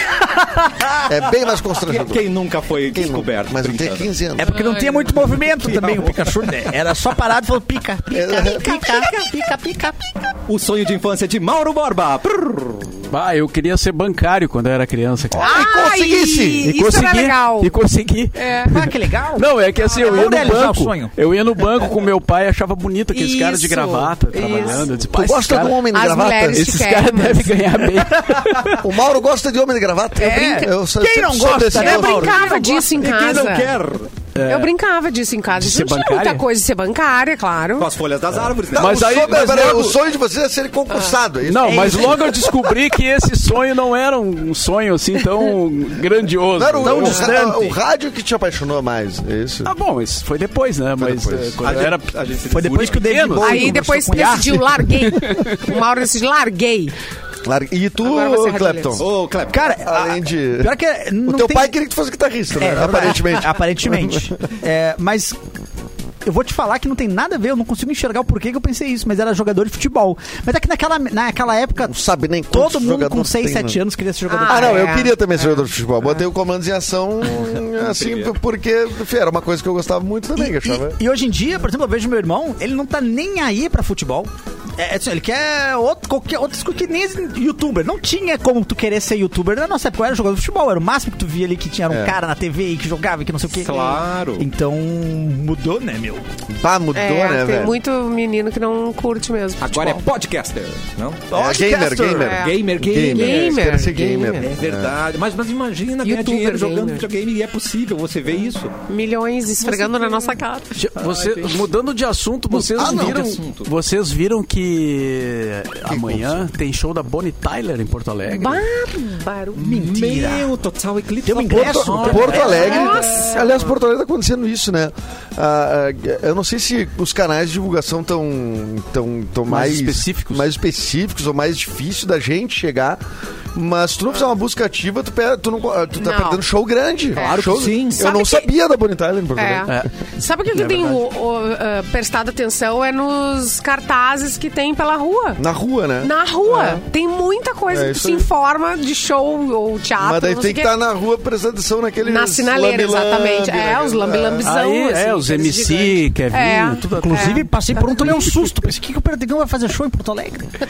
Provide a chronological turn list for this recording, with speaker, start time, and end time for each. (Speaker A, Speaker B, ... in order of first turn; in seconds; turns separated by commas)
Speaker A: 0.2-1.0, Speaker B: 1.1-2.3, Speaker C: 1.8-4.1, Speaker B: 2.9-4.5, Speaker A: 4.4-10.0, Speaker D: 4.5-5.0, Speaker C: 5.6-6.7, Speaker B: 8.1-8.8, Speaker C: 10.5-13.0, Speaker E: 13.1-15.6, Speaker B: 15.3-16.7, Speaker D: 15.4-17.8, Speaker E: 16.6-25.9, Speaker D: 18.4-18.7, Speaker A: 18.6-21.1, Speaker D: 23.1-24.9, Speaker B: 25.1-26.7, Speaker D: 25.9-27.9, Speaker E: 26.5-28.9, Speaker A: 28.1-28.8, Speaker B: 28.8-32.5, Speaker A: 30.1-33.0, Speaker D: 31.7-33.7, Speaker C: 33.0-34.2, Speaker E: 34.3-34.7, Speaker D: 34.4-37.9, Speaker E: 35.5-36.4, Speaker C: 37.8-39.7, Speaker E: 38.7-40.0, Speaker B: 38.7-42.4, Speaker D: 40.9-41.1, Speaker E: 41.5-47.3, Speaker A: 41.6-42.2, Speaker B: 46.5-49.7, Speaker A: 46.8-47.8, Speaker E: 49.6-53.8, Speaker B: 51.0-51.9, Speaker C: 51.6-53.0, Speaker A: 52.5-54.6, Speaker D: 53.4-56.9, Speaker E: 54.8-55.6, Speaker B: 57.4-59.0, Speaker D: 58.0-59.0, Speaker C: 59.0-59.9, Speaker A: 59.5-61.7, Speaker B: 59.8-64.3, Speaker A: 62.5-65.4, Speaker A: 66.2-72.0, Speaker B: 71.8-73.8, Speaker A: 72.5-75.1, Speaker D: 74.3-75.6, Speaker B: 74.5-81.0, Speaker C: 77.3-78.3, Speaker A: 80.3-96.2, Speaker B: 91.9-92.2, Speaker C: 93.5-94.5, Speaker B: 96.5-97.8, Speaker D: 96.9-100.0, Speaker C: 99.6-101.2, Speaker A: 101.3-102.3, Speaker B: 101.3-104.9, Speaker D: 102.2-104.5, Speaker C: 102.2-103.8, Speaker C: 104.4-108.7, Speaker D: 106.0-107.1, Speaker D: 108.9-110.8, Speaker E: 110.7-118.7, Speaker C: 111.0-111.4, Speaker C: 112.5-113.7, Speaker B: 112.8-113.4, Speaker B: 115.9-116.4, Speaker D: 118.3-119.6, Speaker A: 119.5-120.5, Speaker C: 119.6-123.6, Speaker A: 121.2-122.8, Speaker B: 121.5-133.0, Speaker D: 122.3-123.7, Speaker E: 129.5-130.5, Speaker B: 133.5-139.9, Speaker D: 136.0-136.4, Speaker D: 137.1-138.5, Speaker C: 137.2-138.2, Speaker D: 139.4-145.4, Speaker E: 139.7-141.0, Speaker B: 145.4-146.8, Speaker D: 146.0-150.7, Speaker B: 147.7-148.3, Speaker B: 150.0-154.5, Speaker D: 152.1-158.2, Speaker E: 154.4-157.4, Speaker A: 157.0-160.5, Speaker E: 158.0-158.4